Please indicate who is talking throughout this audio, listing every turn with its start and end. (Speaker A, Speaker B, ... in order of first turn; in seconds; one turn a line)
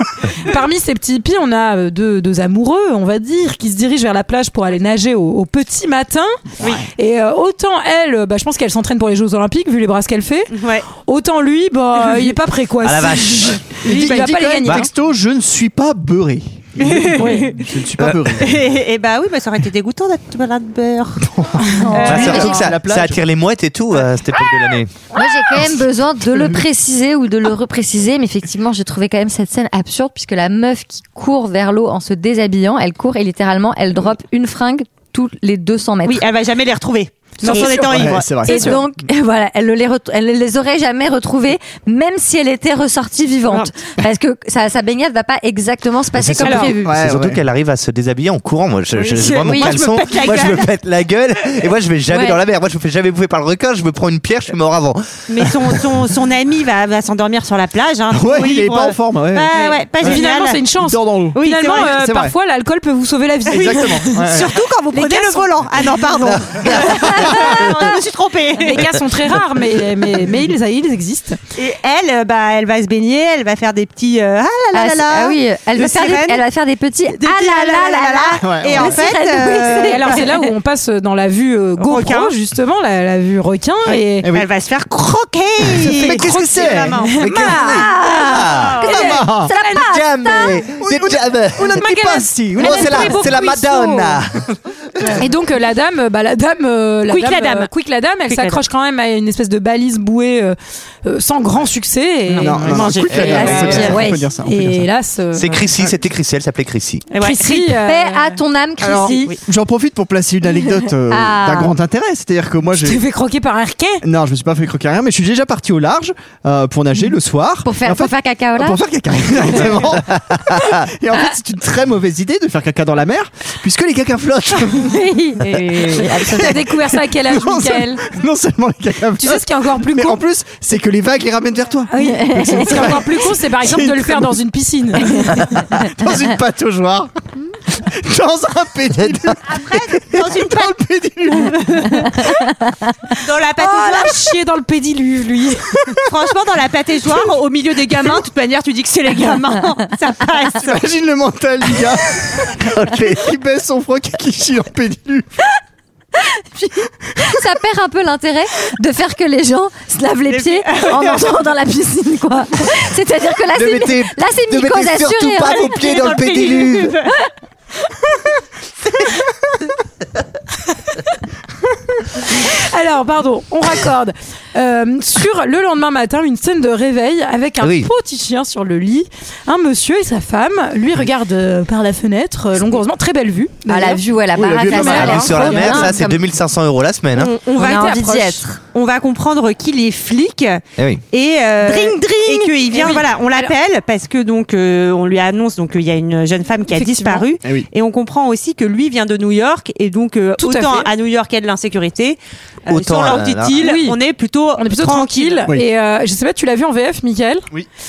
Speaker A: 0.4-6.4
Speaker A: 7.0-14.9
Speaker B: 10.5-10.9
Speaker C: 12.8-13.7
Speaker D: 13.8-18.6
Speaker B: 16.8-17.6
Speaker A: 17.1-17.6
Speaker C: 18.0-18.4
Speaker B: 18.4-21.3
Speaker D: 21.2-23.2
Speaker A: 21.6-22.4
Speaker E: 21.9-22.6
Speaker B: 21.9-22.6
Speaker C: 22.1-25.0
Speaker E: 25.1-36.3
Speaker B: 36.0-38.7
Speaker A: 37.4-38.8
Speaker D: 37.9-38.8
Speaker E: 38.5-47.0
Speaker C: 46.1-55.8
Speaker A: 46.4-46.7
Speaker D: 46.8-47.4
Speaker B: 49.0-50.7
Speaker E: 49.4-49.8
Speaker E: 52.1-52.4
Speaker B: 55.3-60.6
Speaker D: 58.1-59.5
Speaker A: 59.5-64.3
Speaker D: 60.8-62.3
Speaker B: 61.4-62.0
Speaker D: 63.5-64.5
Speaker B: 63.5-68.9
Speaker A: 64.9-65.5
Speaker C: 66.5-67.0
Speaker A: 68.6-71.4
Speaker B: 71.6-76.4
Speaker E: 74.7-80.4
Speaker B: 77.2-80.3
Speaker D: 78.4-79.0
Speaker A: 79.8-84.3
Speaker B: 81.8-82.3
Speaker B: 84.3-87.1
Speaker D: 85.8-87.2
Speaker A: 86.0-87.9
Speaker C: 87.2-89.0
Speaker E: 87.3-90.7
Speaker B: 88.5-89.0
Speaker A: 88.9-89.2
Speaker D: 88.9-89.5
Speaker C: 89.6-91.9
Speaker D: 90.8-93.1
Speaker A: 91.8-94.2
Speaker C: 92.6-95.2
Speaker A: 95.1-102.9
Speaker B: 97.1-97.7
Speaker B: 98.3-98.6
Speaker B: 102.3-103.9
Speaker D: 102.4-104.9
Speaker C: 103.1-103.9
Speaker E: 103.2-104.2
Speaker A: 103.8-105.6
Speaker C: 105.3-107.0
Speaker B: 107.1-107.7
Speaker A: 107.2-109.3
Speaker E: 107.6-109.2
Speaker B: 108.8-109.4
Speaker D: 108.9-113.0
Speaker E: 110.5-111.8
Speaker A: 112.7-114.0
Speaker D: 114.0-125.0
Speaker E: 117.7-118.8
Speaker E: 124.7-126.6
Speaker D: 125.5-134.4
Speaker A: 126.4-128.0
Speaker A: 129.2-130.2
Speaker A: 131.9-135.5
Speaker E: 132.0-133.0
Speaker D: 135.1-137.1
Speaker D: 137.7-141.6
Speaker B: 139.5-142.1
Speaker E: 142.3-142.8
Speaker B: 143.2-144.3
Speaker A: 143.6-146.0
Speaker B: 146.1-150.8
Speaker D: 150.6-152.5
Speaker C: 152.7-153.3
Speaker D: 153.1-155.3
Speaker E: 156.2-165.7
Speaker B: 160.3-161.3
Speaker C: 163.5-167.0
Speaker B: 165.4-167.2
Speaker A: 172.2-184.0
Speaker C: 177.6-177.9
Speaker E: 183.7-186.2
Speaker D: 184.3-185.9
Speaker A: 184.6-185.9
Speaker C: 184.7-187.3
Speaker B: 187.2-205.5
Speaker E: 187.6-188.4
Speaker A: 187.6-188.4
Speaker E: 191.6-192.5
Speaker A: 192.7-193.5
Speaker A: 196.7-197.3
Speaker A: 200.4-200.9
Speaker C: 202.7-203.6
Speaker A: 203.6-204.0
Speaker A: 204.6-207.5